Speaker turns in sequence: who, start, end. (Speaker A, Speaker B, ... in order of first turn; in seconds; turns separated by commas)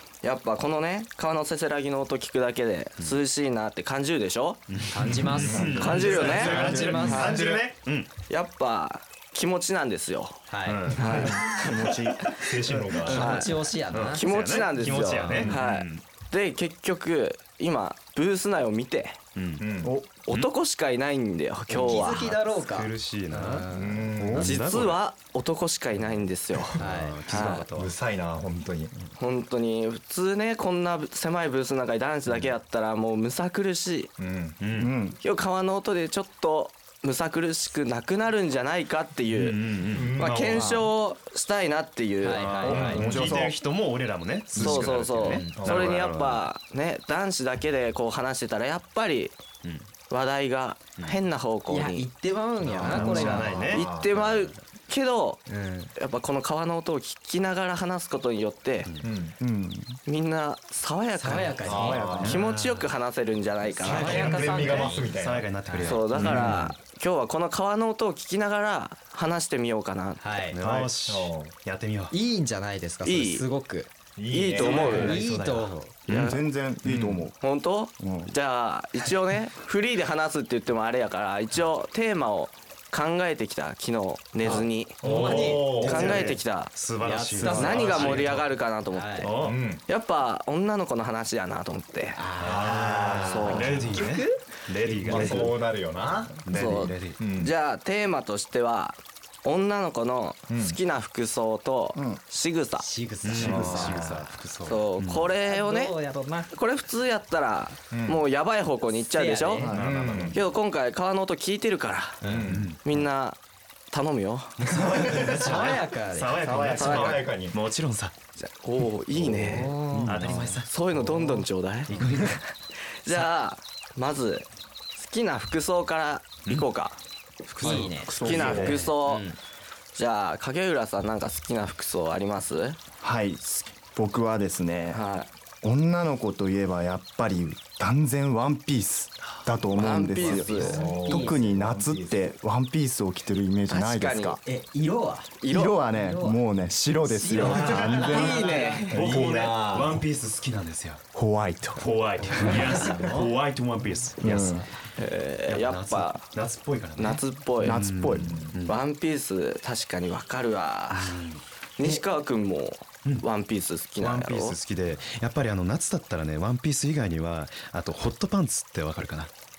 Speaker A: 0.2-4.8, Speaker B: 4.7-8.1, Speaker C: 4.9-7.3, Speaker D: 5.4-7.6, Speaker E: 5.5-7.1, Speaker A: 5.8-7.5, Speaker A: 8.3-10.4, Speaker C: 10.5-11.3, Speaker B: 10.6-11.4, Speaker A: 10.9-12.4, Speaker E: 11.1-12.3, Speaker D: 12.4-13.5, Speaker B: 12.9-16.0, Speaker A: 13.0-13.6, Speaker C: 13.0-14.3, Speaker A: 14.1-19.2, Speaker C: 14.9-15.4, Speaker D: 15.3-15.6, Speaker B: 19.3-19.6, Speaker D: 19.6-19.9, Speaker E: 19.8-20.1, Speaker A: 20.3-22.3, Speaker B: 21.7-23.7, Speaker C: 21.8-24.1, Speaker D: 23.7-24.6, Speaker E: 24.2-24.5, Speaker B: 24.3-25.0, Speaker A: 24.4-27.7, Speaker B: 26.7-27.9, Speaker C: 26.8-27.6, Speaker D: 27.7-28.9, Speaker A: 29.2-34.1, Speaker D: 34.2-34.6, Speaker B: 34.6-34.9, Speaker E: 34.7-35.2, Speaker A: 35.2-42.9, Speaker B: 39.3-40.8, Speaker D: 39.9-40.7, Speaker C: 42.2-43.0, Speaker B: 42.3-46.5, Speaker D: 42.7-43.4, Speaker E: 42.8-43.5, Speaker A: 44.5-49.4, Speaker C: 45.3-45.6, Speaker D: 45.5-46.0, Speaker A: 50.1-52.1, Speaker C: 51.7-53.7, Speaker B: 52.7-54.4, Speaker D: 52.8-54.3, Speaker A: 53.5-55.4, Speaker C: 55.5-55.9, Speaker A: 56.0-58.9, Speaker B: 58.8-59.1, Speaker D: 59.0-59.3, Speaker E: 59.4-60.0, Speaker A: 60.0-64.5, Speaker C: 61.2-62.1, Speaker E: 61.6-62.4, Speaker D: 61.6-62.4, Speaker B: 62.2-62.9, Speaker B: 63.8-66.8, Speaker C: 63.8-65.1, Speaker D: 63.8-65.5, Speaker C: 65.6-66.6, Speaker A: 65.8-70.2, Speaker C: 70.2-70.6, Speaker B: 70.5-72.1, Speaker D: 70.6-71.5, Speaker C: 72.1-73.9, Speaker A: 73.0-73.4, Speaker D: 74.2-75.2, Speaker A: 74.3-75.2, Speaker C: 74.6-75.9, Speaker B: 74.6-76.4, Speaker A: 76.1-76.4, Speaker E: 76.1-77.3, Speaker D: 76.8-77.3, Speaker A: 77.4-86.7, Speaker E: 78.0-78.3, Speaker C: 84.4-86.3, Speaker D: 85.0-86.3, Speaker B: 85.0-88.5, Speaker C: 87.0-89.3, Speaker A: 87.4-92.2, Speaker B: 89.2-89.6, Speaker D: 89.4-89.8, Speaker C: 92.1-93.0, Speaker B: 92.4-95.7, Speaker D: 92.4-94.0, Speaker A: 93.1-93.9, Speaker C: 93.5-95.5, Speaker D: 95.0-96.6, Speaker B: 96.4-97.2, Speaker A: 96.5-102.9, Speaker D: 97.2-97.5, Speaker D: 100.5-100.8, Speaker E: 101.9-102.2, Speaker C: 102.8-104.4, Speaker B: 103.2-105.3, Speaker D: 103.4-104.1, Speaker A: 104.6-105.9, Speaker C: 105.4-106.5, Speaker A: 106.5-109.7, Speaker D: 107.9-108.2, Speaker C: 109.0-109.8, Speaker E: 109.6-110.2, Speaker D: 109.7-110.4, Speaker B: 109.7-110.3, Speaker A: 110.3-112.2, Speaker C: 112.2-112.5, Speaker D: 112.2-112.7, Speaker B: 112.4-112.8, Speaker A: 112.8-113.4, Speaker A: 113.9-114.6, Speaker B: 114.6-118.1, Speaker D: 114.7-115.8, Speaker C: 115.0-116.5, Speaker D: 116.4-117.6, Speaker A: 116.8-117.3, Speaker A: 118.4-119.7, Speaker C: 119.4-120.6, Speaker E: 119.9-120.4, Speaker B: 120.0-120.7, Speaker A: 120.6-122.5, Speaker B: 121.9-122.4, Speaker A: 123.0-127.0, Speaker C: 127.6-128.1, Speaker B: 127.6-128.9, Speaker A: 127.6-129.3, Speaker E: 128.1-128.8, Speaker D: 128.3-128.7, Speaker C: 128.9-129.4, Speaker A: 129.9-132.8, Speaker E: 133.0-133.4, Speaker E: 133.9-135.0, Speaker A: 134.9-135.3, Speaker E: 135.6-144.4, Speaker A: 139.7-140.8, Speaker C: 140.2-141.4, Speaker D: 140.5-142.3, Speaker A: 143.7-144.4, Speaker C: 144.4-145.3, Speaker A: 145.4-145.8, Speaker E: 145.5-148.5, Speaker C: 145.9-146.4, Speaker C: 147.0-148.9, Speaker B: 147.4-151.0, Speaker A: 147.7-149.0, Speaker D: 148.9-150.1, Speaker E: 151.1-151.8, Speaker B: 151.8-154.6, Speaker C: 152.2-153.3, Speaker E: 154.2-154.6, Speaker C: 154.2-154.6, Speaker A: 155.0-156.3, Speaker B: 155.5-158.8, Speaker A: 157.0-157.8, Speaker E: 157.6-158.4, Speaker D: 158.2-158.5, Speaker A: 158.7-161.2, Speaker B: 160.9-161.4, Speaker A: 161.8-164.6, Speaker B: 164.0-169.3